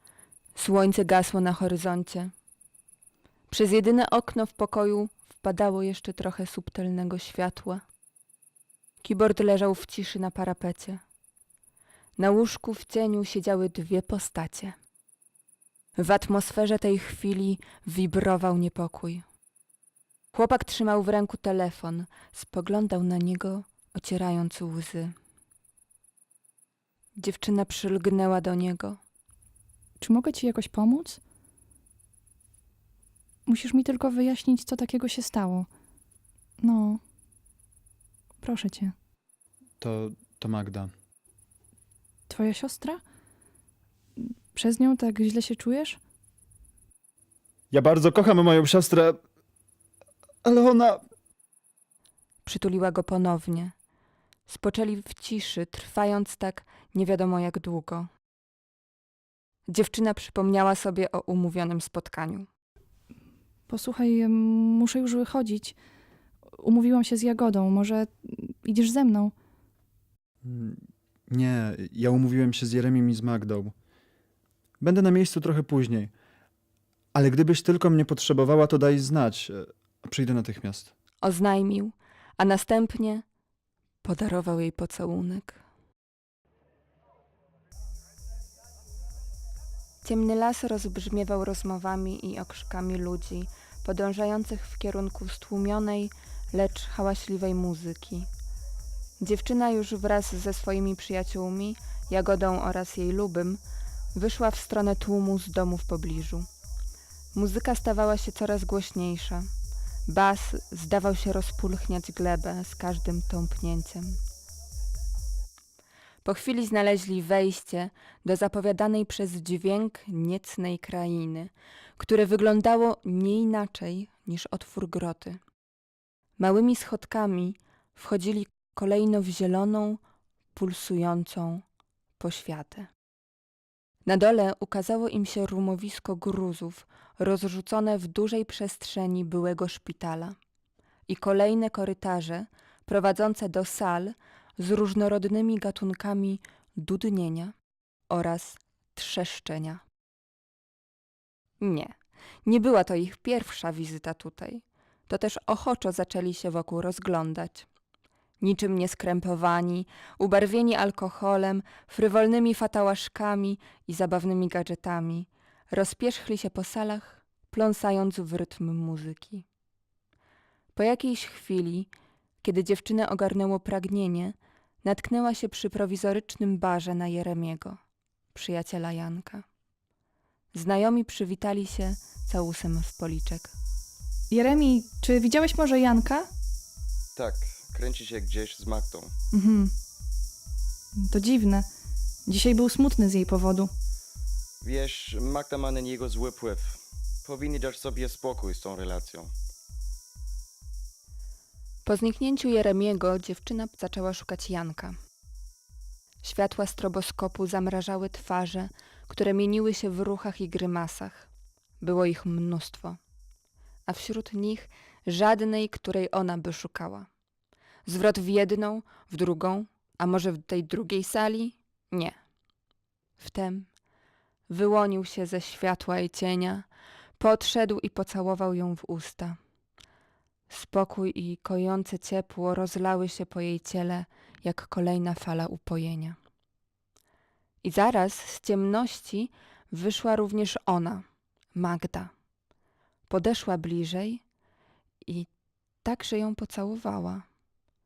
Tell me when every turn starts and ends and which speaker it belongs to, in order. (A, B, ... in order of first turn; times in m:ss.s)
0:00.6-0:02.3 A
0:03.5-0:07.8 A
0:09.0-0:11.0 A
0:12.2-0:14.8 A
0:16.0-0:19.2 A
0:20.3-0:25.1 A
0:27.2-0:29.0 A
0:30.0-0:31.2 B
0:33.5-0:35.7 B
0:36.6-0:37.0 B
0:38.4-0:38.9 B
0:39.8-0:40.9 C
0:42.3-0:43.0 B
0:44.2-0:46.0 B
0:47.7-0:49.2 C
0:50.4-0:51.0 C
0:52.4-0:53.7 A
0:54.5-0:58.1 A
0:59.7-1:02.5 A
1:03.7-1:05.7 B
1:06.6-1:09.3 B
1:10.4-1:13.7 C
1:14.8-1:16.1 C
1:17.1-1:20.9 C
1:21.2-1:23.2 A
1:24.0-1:25.6 A
1:30.0-1:38.3 A
1:39.2-1:43.6 A
1:44.1-1:46.5 A
1:47.3-1:49.5 A
1:50.1-1:54.2 A
1:56.2-2:05.4 A
2:06.4-2:10.0 A
2:10.5-2:11.6 A
2:12.2-2:12.9 A
2:14.0-2:20.4 A
2:21.1-2:27.5 A
2:28.1-2:29.8 A
2:31.6-2:31.9 A
2:32.4-2:37.7 A
2:38.4-2:49.4 A
2:50.7-2:51.9 A
2:52.4-2:57.8 A
2:58.3-2:59.4 A
3:00.5-3:03.5 A
3:04.3-3:06.3 B
3:07.2-3:09.1 D
3:09.3-3:09.7 B
3:11.0-3:11.6 B
3:12.3-3:13.7 B
3:14.6-3:19.3 D
3:21.8-3:25.0 A
3:26.2-3:31.3 A
3:31.8-3:33.0 A
3:33.9-3:37.1 A
3:37.8-3:42.2 A
3:43.2-3:43.7 A
3:44.5-3:46.7 A
3:47.2-3:49.4 A
3:50.5-3:56.2 A
3:57.6-4:02.1 A
4:03.1-4:04.2 A
4:05.8-4:07.2 A